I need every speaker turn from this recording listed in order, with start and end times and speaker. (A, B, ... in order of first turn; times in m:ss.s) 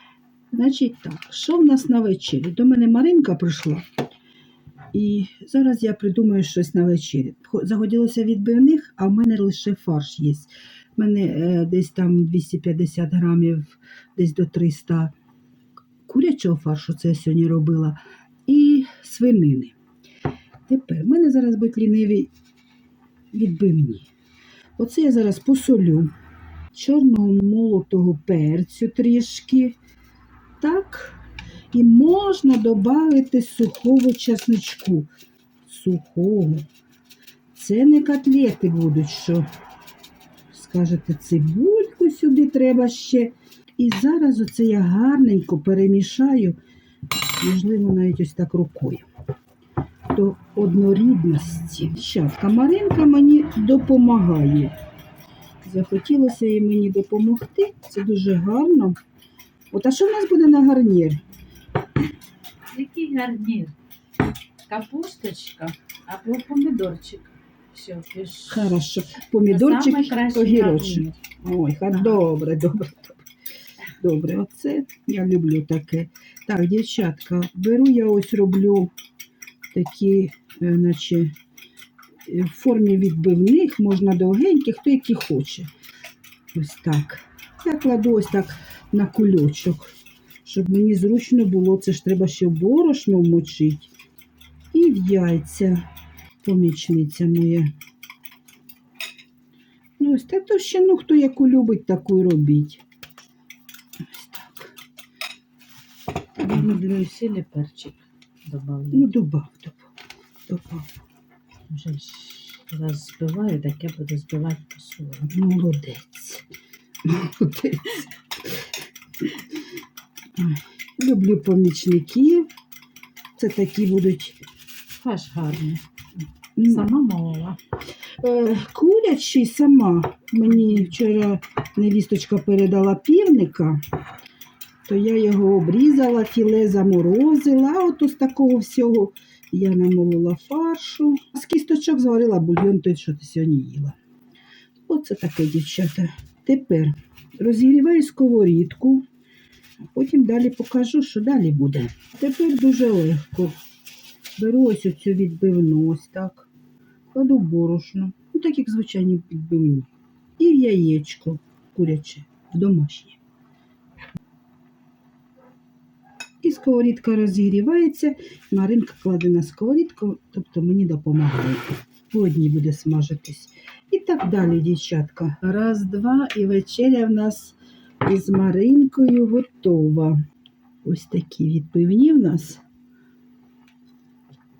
0:00.5-0:03.8 A
0:04.9-0:15.1 A
0:16.0-0:19.7 A
0:20.7-0:22.3 A
0:23.3-0:24.1 A
0:24.8-0:26.1 A
0:26.7-0:29.8 A
0:30.6-0:31.2 A
0:31.7-0:35.1 A
0:35.6-0:36.6 A
0:37.5-0:39.4 A
0:40.5-0:46.6 A
0:47.4-0:49.1 A
0:50.1-0:54.7 A
0:55.6-0:59.0 A
0:59.7-1:01.2 A
1:02.7-1:03.7 B
1:04.7-1:08.7 B
1:08.5-1:13.2 A
1:09.5-1:11.1 B
1:14.0-1:18.9 A
1:19.7-1:21.3 A
1:22.3-1:25.7 A
1:26.5-1:33.9 A
1:34.7-1:35.8 A
1:36.4-1:37.7 A
1:40.0-1:42.8 A
1:44.0-1:44.7 A
1:46.4-1:49.1 B
1:48.9-1:49.9 A
1:50.5-1:50.9 A
1:51.7-1:55.3 B
1:55.3-1:56.4 A
1:57.0-1:58.0 A
2:00.4-2:02.5 A
2:03.4-2:04.4 A
2:04.9-2:05.8 B
2:06.6-2:06.9 A
2:06.6-2:07.6 B
2:08.2-2:13.8 A
2:14.8-2:24.0 A
2:24.8-2:29.0 A
2:29.9-2:33.6 A
2:34.4-2:36.5 A
2:37.1-2:43.2 A
2:46.4-3:00.2 A
3:00.8-3:02.6 A